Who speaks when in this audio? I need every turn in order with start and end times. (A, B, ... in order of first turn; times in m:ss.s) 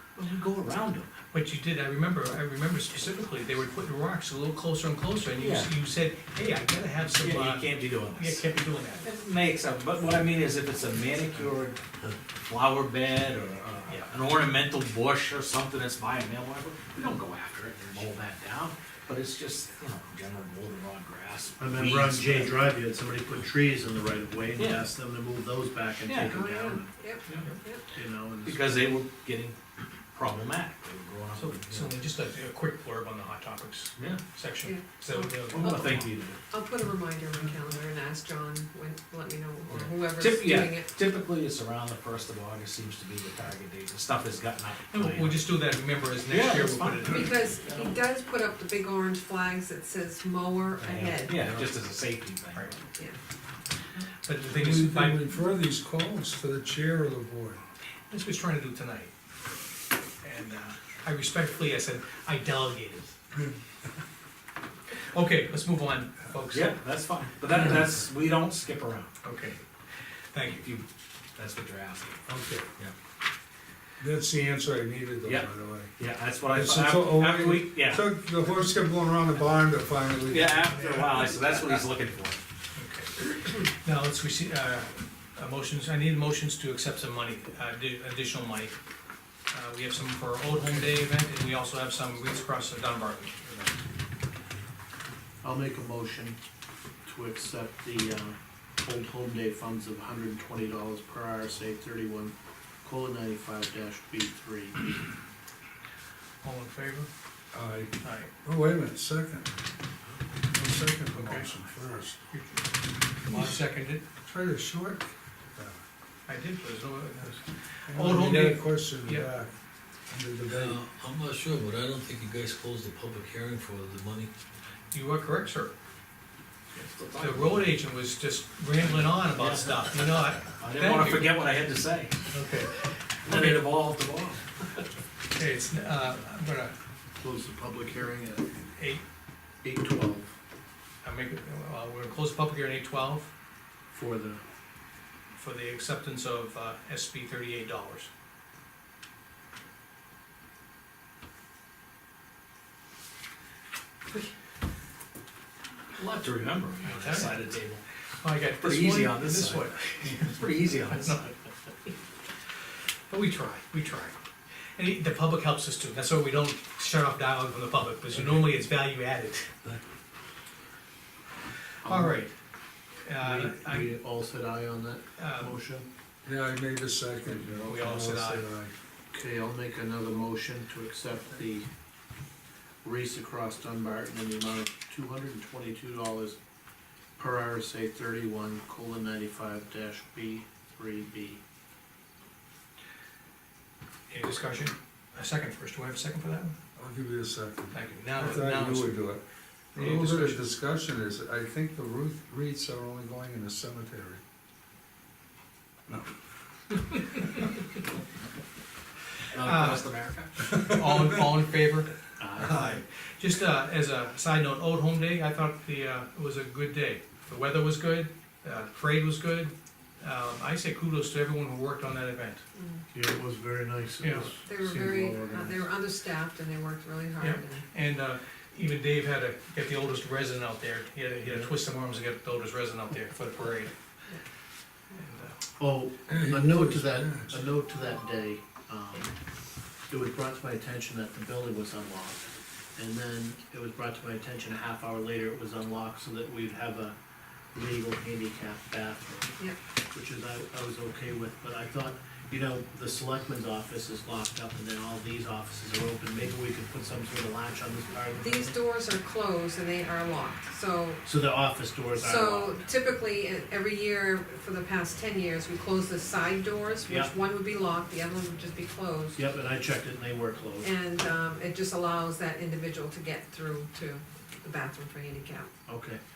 0:00.2-0:01.1 A
0:01.3-0:09.1 B
0:05.4-0:05.7 A
0:07.2-0:08.5 A
0:09.0-0:11.8 A
0:12.4-0:22.6 A
0:13.9-0:14.1 B
0:21.6-0:26.9 C
0:24.6-0:24.9 A
0:26.0-0:26.4 A
0:26.2-0:27.9 D
0:27.9-0:28.8 C
0:28.4-0:29.6 A
0:30.1-0:32.0 A
0:31.4-0:36.1 B
0:34.0-0:34.2 A
0:34.6-0:40.9 D
0:35.5-0:36.4 A
0:39.7-0:45.4 A
0:44.9-0:47.3 B
0:46.3-0:47.9 A
0:47.0-0:51.5 D
0:51.2-0:52.8 A
0:52.5-0:52.8 B
0:54.2-0:55.3 B
0:54.5-0:57.6 E
0:58.1-0:59.1 B
1:00.2-1:03.2 B
1:05.1-1:06.8 B
1:06.5-1:09.1 A
1:09.2-1:09.6 B
1:10.3-1:10.7 B
1:11.4-1:12.2 A
1:12.3-1:12.7 E
1:14.0-1:15.9 E
1:15.2-1:18.0 A
1:16.5-1:21.2 E
1:20.3-1:22.4 A
1:22.8-1:28.8 B
1:29.5-1:33.8 B
1:35.4-1:36.4 C
1:37.0-1:45.1 C
1:46.4-1:47.1 B
1:47.5-1:49.6 E
1:48.0-1:48.3 B
1:50.5-1:52.2 E
1:51.2-1:51.5 B
1:52.3-1:54.0 B
1:53.3-1:53.6 E
1:54.2-1:55.8 E
1:56.3-1:59.3 B
1:57.9-1:59.5 E
2:00.1-2:00.9 E
2:00.5-2:04.3 F
2:04.9-2:05.8 B
2:06.7-2:07.7 A
2:07.2-2:11.3 B
2:08.8-2:10.0 A
2:10.5-2:12.2 A
2:12.3-2:13.8 B
2:13.2-2:14.5 A
2:15.3-2:16.8 B
2:17.2-2:18.5 C
2:18.8-2:19.0 B
2:19.6-2:20.3 C
2:21.0-2:23.3 B
2:23.9-2:24.4 C
2:25.4-2:28.1 B
2:36.0-2:37.8 A
2:36.8-2:37.4 B
2:38.2-2:41.3 B
2:38.6-2:41.2 A
2:43.1-2:44.2 B
2:44.8-2:49.5 B
2:51.8-2:52.3 C
2:51.8-2:52.3 B
2:53.1-2:53.9 B
2:53.2-2:55.9 C
2:55.2-2:55.6 B
2:56.2-2:58.7 E
2:57.6-2:58.5 B
2:59.1-3:01.7 C
3:02.8-3:06.4 C
3:07.2-3:11.4 C
3:14.1-3:16.6 B
3:16.8-3:19.2 E
3:17.7-3:19.0 B
3:19.8-3:20.4 B
3:19.8-3:24.2 E
3:29.3-3:30.5 A
3:29.4-3:29.9 B
3:30.4-3:42.4 B
3:32.2-3:32.8 A
3:42.6-3:42.9 D
3:42.9-3:45.7 C
3:44.0-3:44.3 B
3:44.4-3:47.7 D
3:47.2-3:53.7 B
3:55.0-3:55.4 B
3:55.6-3:59.1 C
3:56.1-3:57.4 E
3:59.9-4:07.0 C
4:07.5-4:18.6 C
4:18.1-4:21.0 D
4:21.0-4:22.7 C
4:22.0-4:29.2 D
4:26.9-4:27.1 C
4:29.2-4:30.7 C
4:30.6-4:35.5 D
4:35.7-4:36.0 C